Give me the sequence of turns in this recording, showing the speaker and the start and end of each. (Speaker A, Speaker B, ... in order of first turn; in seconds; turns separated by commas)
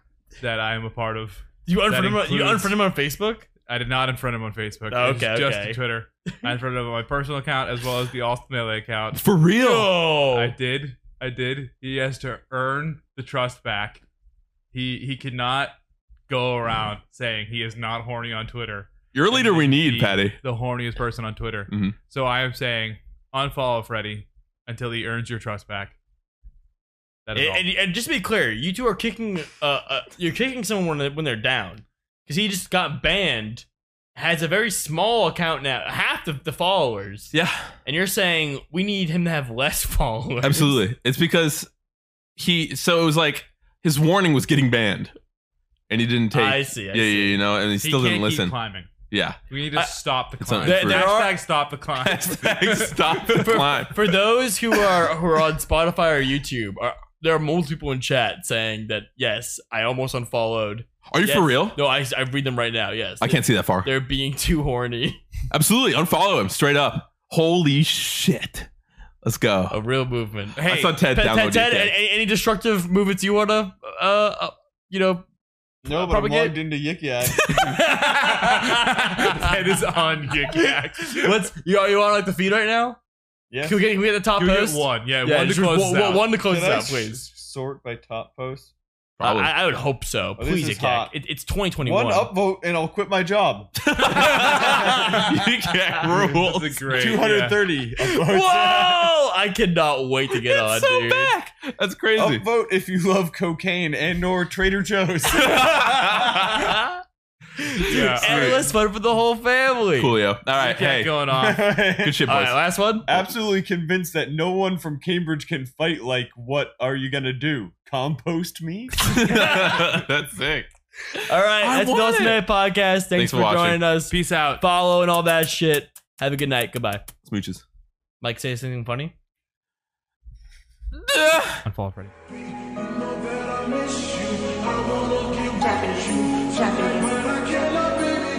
Speaker A: 0.4-2.8, Speaker B: 1.6-3.5, Speaker A: 3.7-9.2, Speaker B: 4.9-5.8, Speaker C: 9.1-9.9, Speaker B: 9.6-10.6, Speaker A: 10.3-14.0, Speaker A: 14.7-15.8, Speaker A: 16.3-26.0, Speaker C: 19.1-20.4, Speaker C: 21.7-21.9, Speaker A: 27.3-27.7, Speaker B: 27.4-37.3, Speaker C: 37.3-37.7, Speaker B: 37.9-40.8, Speaker C: 40.4-41.7, Speaker C: 42.4-45.1, Speaker C: 45.9-48.6, Speaker B: 46.3-47.4, Speaker A: 47.8-48.9, Speaker C: 49.1-49.4, Speaker A: 49.5-53.7, Speaker C: 50.4-51.1, Speaker B: 50.6-51.4, Speaker C: 52.0-54.2, Speaker B: 53.8-65.2, Speaker C: 54.7-55.1, Speaker C: 61.1-61.8, Speaker C: 63.2-63.9, Speaker C: 65.5-68.7, Speaker C: 69.2-69.8, Speaker B: 69.7-75.2, Speaker C: 70.6-71.9, Speaker B: 75.8-76.6, Speaker D: 75.8-77.8, Speaker B: 77.5-79.6, Speaker A: 77.8-81.3, Speaker B: 80.4-83.0, Speaker D: 83.5-83.8, Speaker B: 83.6-87.2, Speaker A: 84.4-86.3, Speaker D: 86.4-88.7, Speaker C: 89.2-89.5, Speaker B: 89.2-92.3, Speaker D: 90.4-91.1, Speaker D: 91.8-93.8, Speaker C: 93.8-97.2, Speaker B: 94.0-95.3, Speaker A: 94.4-95.1, Speaker D: 94.6-95.0, Speaker A: 96.2-97.6, Speaker D: 96.9-99.1, Speaker B: 98.0-101.3, Speaker C: 100.3-102.4, Speaker D: 102.2-106.6, Speaker C: 105.3-106.7, Speaker B: 105.8-107.0, Speaker B: 107.6-111.6, Speaker A: 107.8-108.6, Speaker C: 108.2-108.7, Speaker C: 110.0-111.3, Speaker A: 110.6-111.2, Speaker D: 111.3-112.3, Speaker C: 111.9-112.6, Speaker B: 112.3-113.1, Speaker D: 113.1-119.0, Speaker B: 119.0-120.0, Speaker C: 119.1-122.4, Speaker B: 121.3-127.1, Speaker C: 123.2-123.8, Speaker A: 124.1-124.6, Speaker C: 127.3-127.6, Speaker B: 128.2-129.1, Speaker C: 131.0-131.6, Speaker A: 131.6-132.1, Speaker E: 134.5-138.1